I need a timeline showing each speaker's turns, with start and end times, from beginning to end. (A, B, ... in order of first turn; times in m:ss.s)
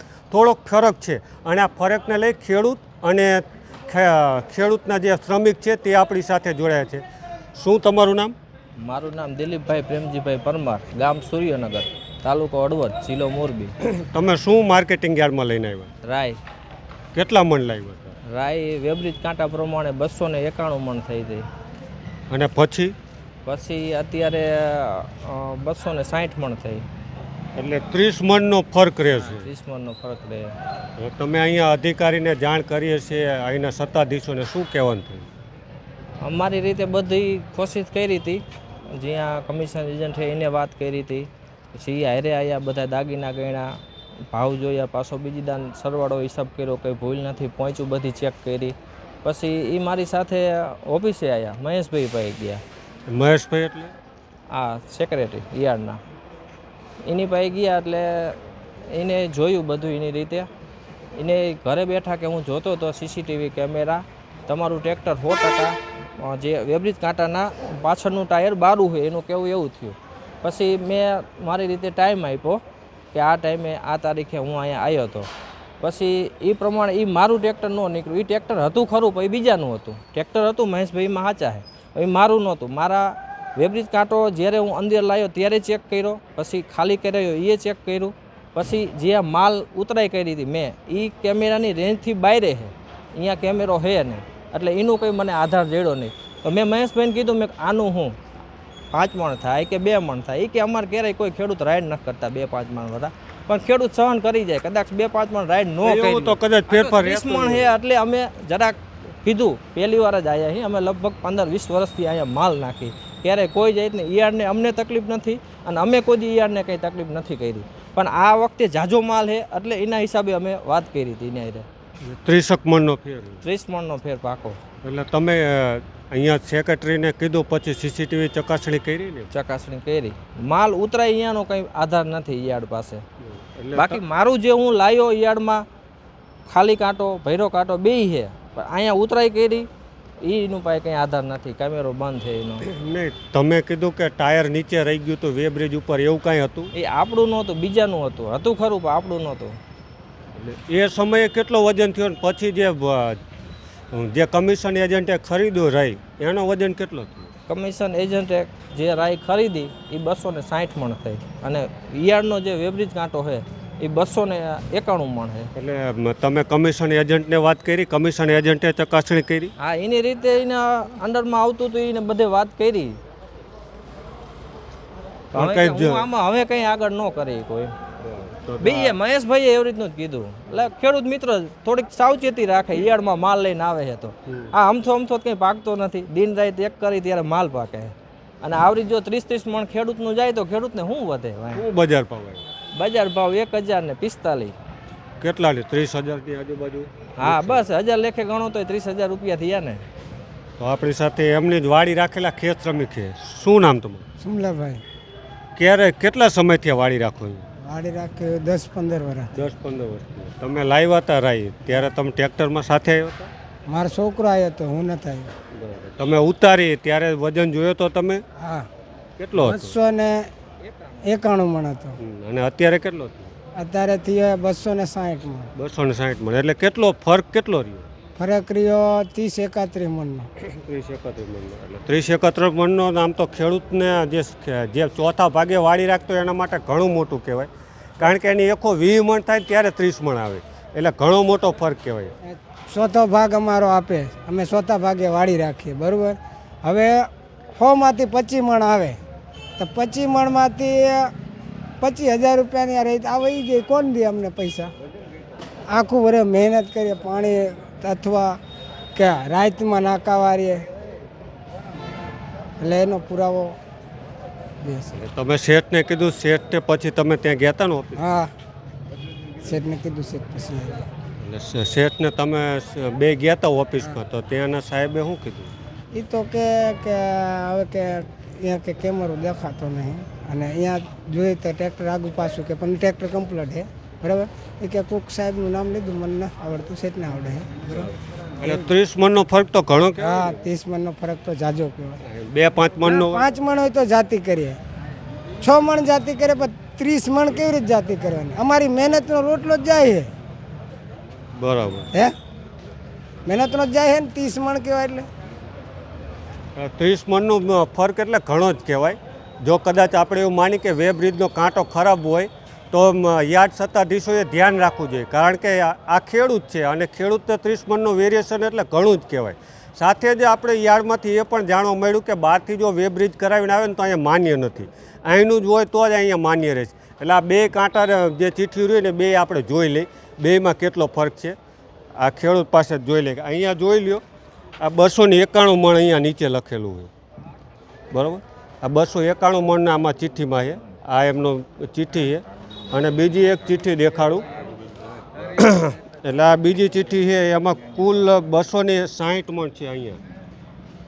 0:00.3-0:07.0 A
0:07.5-0:08.3 A
0:08.8-0:13.7 B
0:13.8-0:15.9 A
0:16.0-0:16.4 B
0:17.1-0:18.2 A
0:18.3-0:21.5 B
0:22.3-0:22.9 A
0:23.4-0:26.8 B
0:27.6-0:29.5 A
0:29.2-0:30.5 B
0:31.0-0:35.3 A
0:36.2-0:38.4 B
0:38.9-0:43.7 B
0:44.3-0:52.6 B
0:53.1-0:53.9 A
0:54.5-0:56.0 B
0:57.0-0:58.4 B
0:58.9-1:00.5 B
1:01.2-1:12.6 B
1:13.1-1:15.3 B
1:15.8-1:38.2 B
1:38.9-2:01.6 B
1:45.8-1:47.7 A
2:02.0-2:03.4 A
2:03.4-2:04.6 B
2:04.8-2:09.3 A
2:09.3-2:13.0 B
2:13.2-2:14.0 A
2:13.7-2:15.6 B
2:16.4-2:19.7 B
2:20.2-2:22.6 B
2:22.6-2:26.7 A
2:26.7-2:29.6 B
2:30.4-2:33.2 A
2:33.9-2:37.3 A
2:37.5-2:45.5 B
2:45.6-2:49.5 A
2:49.6-2:53.0 B
2:55.3-2:56.0 A
2:55.3-2:57.7 B
2:58.0-2:59.0 A
2:58.6-3:11.6 B
3:04.3-3:04.5 A
3:11.5-3:12.4 A
3:12.7-3:14.5 B
3:15.2-3:17.6 A
3:17.2-3:19.8 B
3:20.6-3:24.0 A
3:24.2-3:24.8 C
3:25.6-3:27.4 A
3:27.6-3:29.3 C
3:29.3-3:33.3 A
3:33.7-3:35.3 C
3:35.5-3:38.2 A
3:38.4-3:38.7 C
3:39.2-3:39.8 A
3:39.4-3:40.3 C
3:41.0-3:42.0 C
3:42.0-3:43.3 A
3:43.6-3:45.5 C
3:45.5-3:47.9 A
3:48.2-3:50.3 C
3:50.4-4:02.1 A
4:02.2-4:09.0 C
4:09.6-4:11.1 C
4:11.8-4:14.7 C
4:15.7-4:18.4 C
4:18.9-4:20.6 C
4:22.6-4:23.6 C
4:24.6-4:24.9 C
4:24.9-4:28.0 A
4:28.0-4:28.3 C
4:29.4-4:30.9 C
4:31.2-4:35.5 A
4:35.9-4:47.9 C
4:48.4-4:50.4 A
4:50.0-4:52.0 C
4:52.0-4:53.2 A
4:52.8-4:54.6 C
4:55.4-5:00.1 C
5:01.4-5:01.9 A
5:03.2-5:05.1 C
5:06.6-5:31.4 A
5:32.0-5:34.0 A
5:34.6-5:36.9 A
5:37.9-5:44.2 A
5:45.4-5:50.0 A